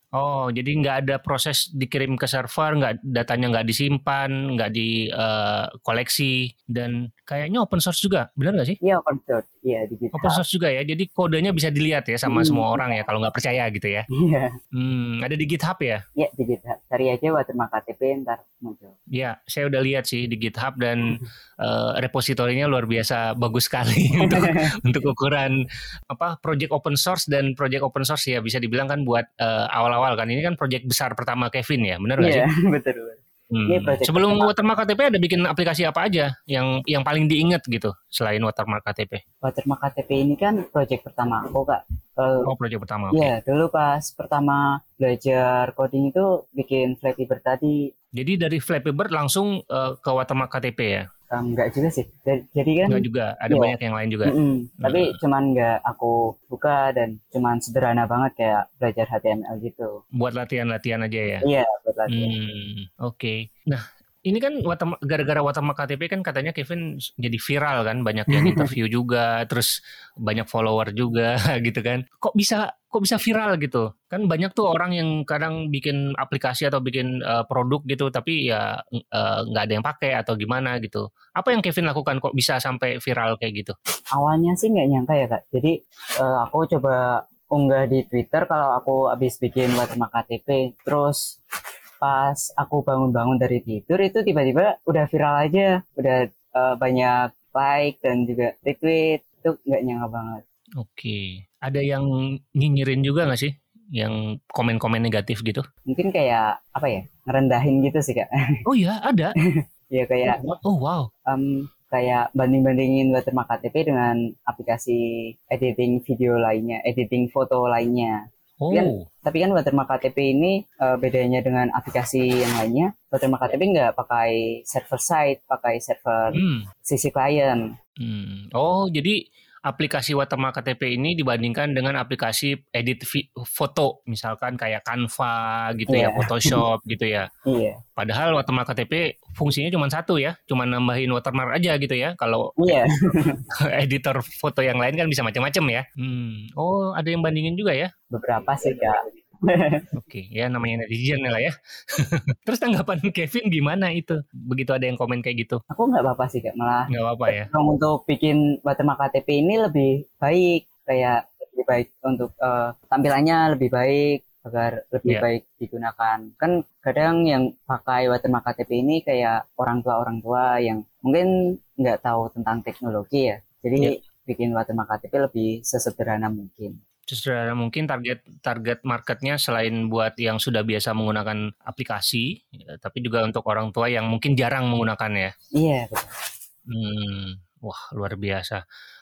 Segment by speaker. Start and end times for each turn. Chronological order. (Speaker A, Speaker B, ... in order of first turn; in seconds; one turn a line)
Speaker A: 0.2-8.8
Speaker B: 8.8-10.4
Speaker A: 10.1-14.1
Speaker B: 12.3-13.0
Speaker B: 14.1-14.5
Speaker A: 14.7-16.0
Speaker B: 16.2-18.9
Speaker A: 19.1-25.5
Speaker B: 24.2-24.7
Speaker A: 26.1-32.5
Speaker B: 32.2-34.5
Speaker A: 33.5-39.2
Speaker B: 39.4-42.5
Speaker A: 42.5-43.3
Speaker B: 43.1-47.8
Speaker A: 48.2-51.0
Speaker B: 51.3-53.7
Speaker A: 52.9-55.1
Speaker B: 54.2-60.0
Speaker A: 60.2-61.4
Speaker B: 61.4-62.3
Speaker A: 62.1-69.7
Speaker B: 68.3-68.7
Speaker A: 70.2-83.7
Speaker B: 84.1-91.4
Speaker B: 92.0-100.4
Speaker A: 100.8-102.0
Speaker A: 102.6-105.6
Speaker B: 105.9-108.3
Speaker A: 108.7-109.3
Speaker B: 109.9-110.4
Speaker A: 110.3-111.1
Speaker B: 111.3-118.2
Speaker A: 118.6-119.0
Speaker B: 118.7-127.6
Speaker A: 126.3-126.6
Speaker A: 128.0-129.1
Speaker A: 129.7-137.3
Speaker B: 135.9-136.6
Speaker B: 137.5-137.8
Speaker A: 138.0-142.7
Speaker B: 142.6-143.4
Speaker A: 143.8-147.9
Speaker B: 148.1-149.9
Speaker A: 149.9-155.6
Speaker B: 155.7-176.8
Speaker A: 156.9-157.5
Speaker A: 177.1-182.2
Speaker A: 182.8-185.3
Speaker B: 185.6-186.1
Speaker A: 186.7-188.6